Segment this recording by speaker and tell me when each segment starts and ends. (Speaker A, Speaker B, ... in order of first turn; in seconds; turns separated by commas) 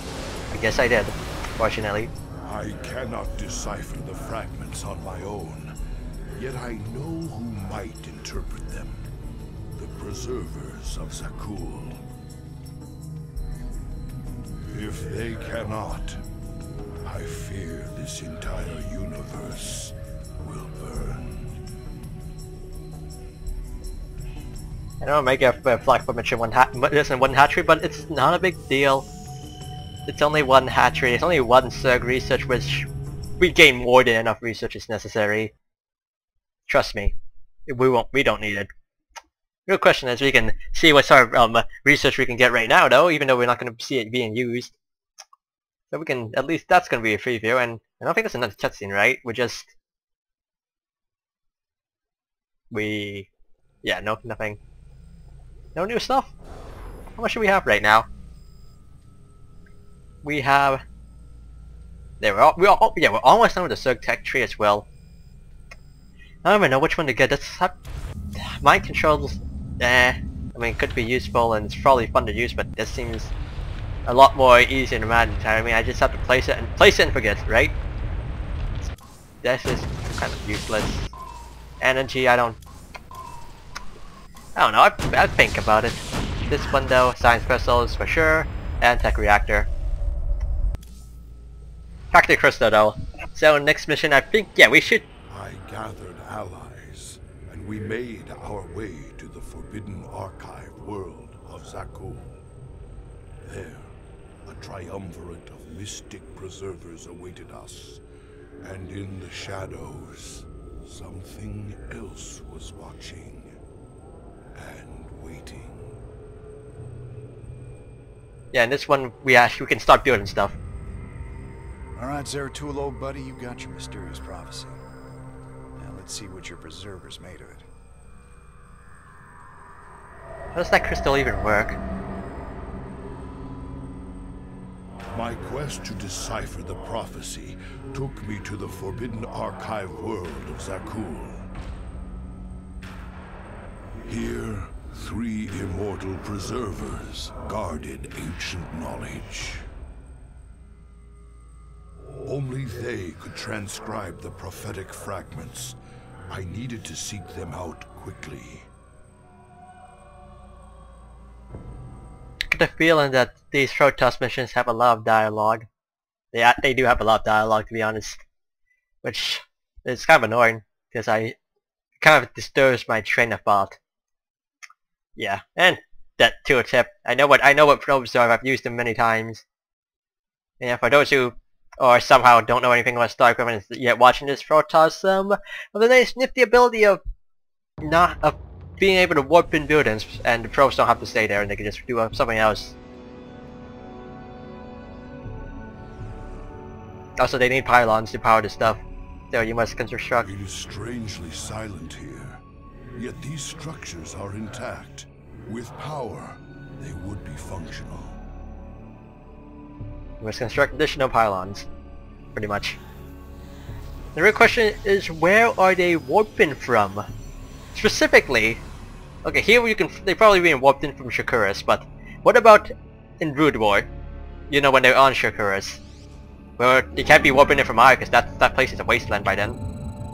Speaker A: 0.5-2.1, Speaker B: 2.4-5.8, Speaker B: 6.4-9.1, Speaker B: 9.8-12.0, Speaker B: 14.7-16.2, Speaker B: 17.0-21.6, Speaker A: 25.0-29.1, Speaker A: 30.1-32.9, Speaker A: 33.4-35.5, Speaker A: 36.7-37.1, Speaker A: 37.7-38.7, Speaker A: 39.7-44.8, Speaker A: 45.9-49.7, Speaker A: 52.7-53.3, Speaker A: 53.8-54.6, Speaker A: 55.8-56.3, Speaker A: 57.1-58.1, Speaker A: 60.2-60.8, Speaker A: 62.2-64.9, Speaker A: 66.4-67.7, Speaker A: 68.4-73.3, Speaker A: 74.1-77.7, Speaker A: 79.4-81.1, Speaker A: 81.8-82.6, Speaker A: 84.6-89.7, Speaker A: 92.1-95.0, Speaker B: 95.3-102.4, Speaker B: 103.4-108.0, Speaker B: 108.6-113.6, Speaker B: 114.5-116.0, Speaker A: 118.5-120.5, Speaker C: 122.0-124.8, Speaker C: 125.8-127.7, Speaker A: 130.5-131.8, Speaker B: 135.1-141.5, Speaker B: 144.1-149.7, Speaker B: 152.2-155.8, Speaker B: 156.3-158.7, Speaker A: 162.5-165.7, Speaker A: 166.3-168.2, Speaker A: 169.0-171.4, Speaker A: 172.0-173.8, Speaker A: 175.2-179.4, Speaker A: 180.6-187.0, Speaker A: 187.8-192.8, Speaker A: 197.2-198.8, Speaker A: 199.3-200.3, Speaker B: 200.2-202.4, Speaker B: 203.0-208.2, Speaker A: 210.2-211.7, Speaker A: 212.3-212.8, Speaker A: 214.1-217.1, Speaker A: 217.7-218.6, Speaker A: 219.2-223.9, Speaker A: 224.5-225.8, Speaker A: 226.6-229.6